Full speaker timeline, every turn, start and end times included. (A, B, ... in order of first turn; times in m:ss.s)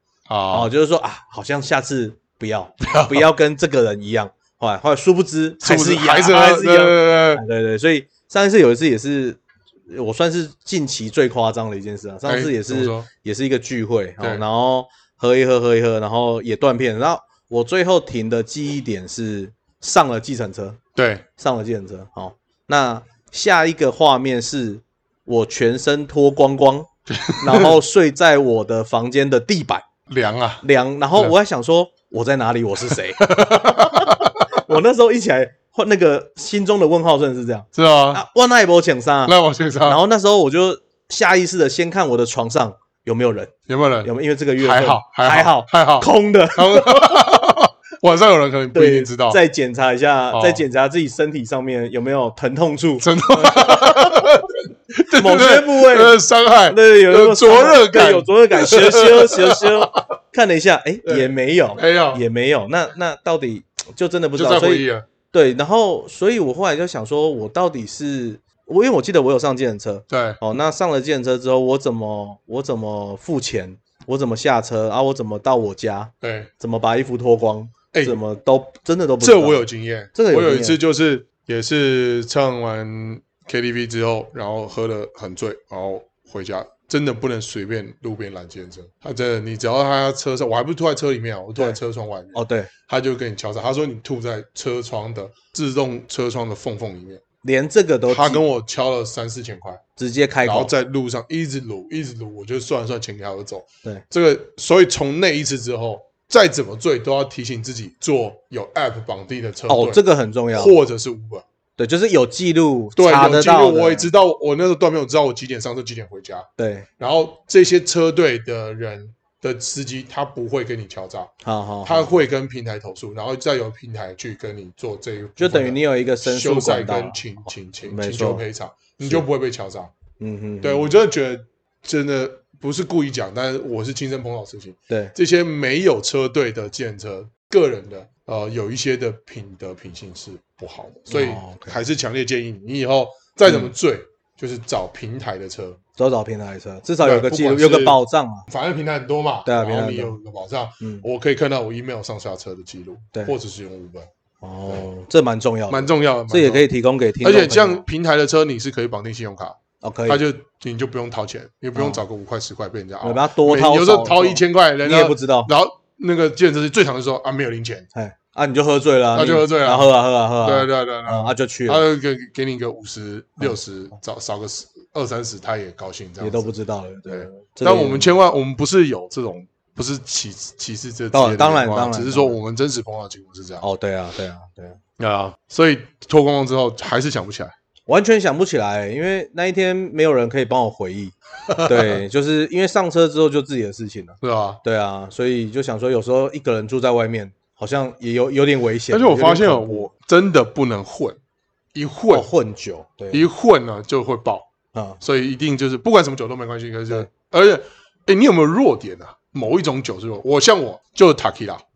0:00.3-0:00.7 A
0:00.5-0:20.8 B
0:02.8-0:03.2 A
0:05.6-0:07.4 A
0:12.2-0:13.1 A
0:21.0-0:21.2 A
0:21.4-0:26.9 B
0:27.1-0:27.8 A
0:27.4-0:29.8 B
0:30.1-0:30.6 A
0:30.6-0:43.5 B
0:32.9-0:34.6 A
0:37.7-0:38.2 A
0:39.2-0:40.0 A
0:43.7-0:49.4 A
0:44.0-0:47.2 B
0:48.7-0:54.2 B
0:50.3-0:50.6 A
0:53.0-1:00.0 A
0:55.1-0:56.2 B
0:56.7-1:20.8 B
1:01.0-1:02.2 A
1:04.4-1:05.0 A
1:10.1-1:10.4 A
1:16.2-1:16.5 A
1:17.9-1:18.2 A
1:19.2-1:37.2 A
1:32.4-1:32.7 B
1:37.4-1:38.4 B
1:38.1-1:39.8 A
1:40.0-1:40.7 B
1:40.4-1:50.0 A
1:49.7-1:50.8 B
1:50.5-1:51.4 A
1:51.8-1:54.1 B
1:53.0-1:56.5 A
1:56.6-1:56.9 B
1:57.0-2:01.3 A
2:01.4-2:02.2 B
2:01.8-2:09.9 A
2:05.4-2:07.2 B
2:07.9-2:08.4 B
2:10.2-2:11.0 B
2:10.6-2:25.8 A
2:14.9-2:15.1 B
2:21.1-2:21.8 B
2:23.5-2:23.7 B
2:26.0-2:28.5 B
2:27.0-2:34.1 A
2:29.4-2:30.2 B
2:34.4-2:37.8 B
2:35.7-2:36.6 A
2:37.2-2:47.9 A
2:39.8-2:40.2 B
2:41.8-2:42.0 B
2:43.0-2:45.5 B
2:47.9-2:51.8 B
2:49.1-2:49.9 A
2:50.4-2:56.5 A
2:56.2-2:58.2 B
2:57.1-3:03.6 A
3:01.1-3:02.4 B
3:03.6-3:04.8 B
3:05.0-3:07.5 A
3:07.9-3:19.9 B
3:11.5-3:12.0 A
3:14.2-3:14.6 A
3:18.9-3:21.2 A
3:21.7-3:22.3 A
3:22.1-3:23.2 B
3:23.1-3:24.5 A
3:24.7-3:25.0 B
3:25.0-3:31.6 A